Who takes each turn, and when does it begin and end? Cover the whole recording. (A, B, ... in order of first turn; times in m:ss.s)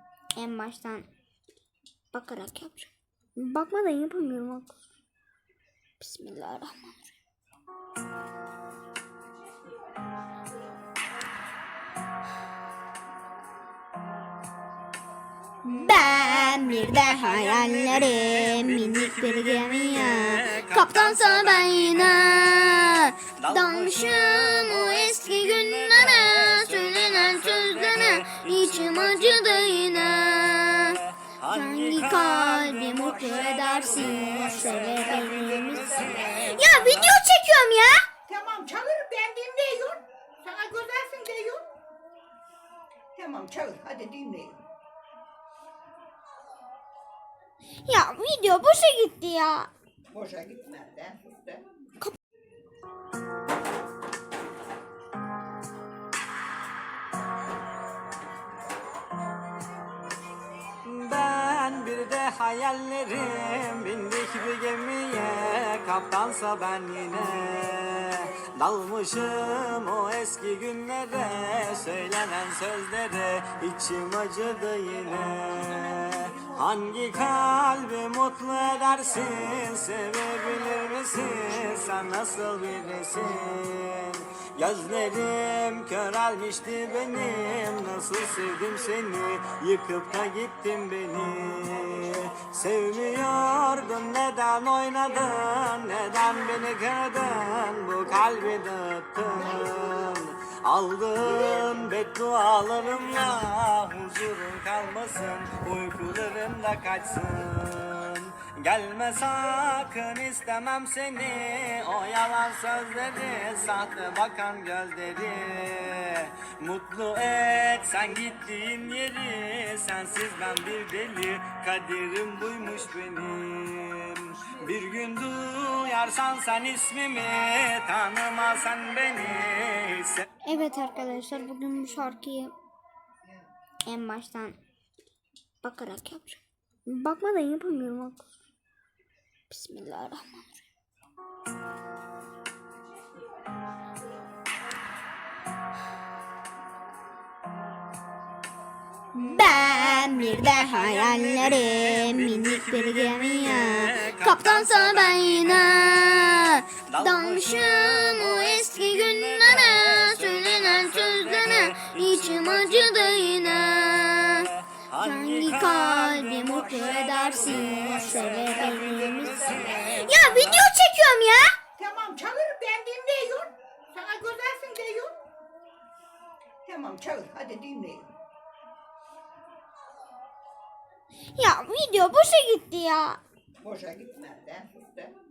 0:00.4-0:01.1 A
0:02.1-0:04.8 A
0:06.0-0:07.1 A
0:15.6-0:38.0 A
0:16.7-0:37.2 B
0:33.0-0:36.4 C
0:38.3-0:41.6 C
0:43.1-0:44.6 C
0:47.8-0:49.7 A
0:50.1-0:51.7 C
1:00.8-2:10.2 B
2:10.4-2:12.5 A
2:13.8-2:14.6 A
2:15.6-2:18.2 A
2:19.5-2:20.6 A
2:29.1-2:51.5 A
2:30.2-2:50.7 B
2:46.4-2:49.8 C
2:51.8-2:55.1 C
2:56.6-2:58.1 C
3:01.3-3:03.2 A
3:03.6-3:05.2 C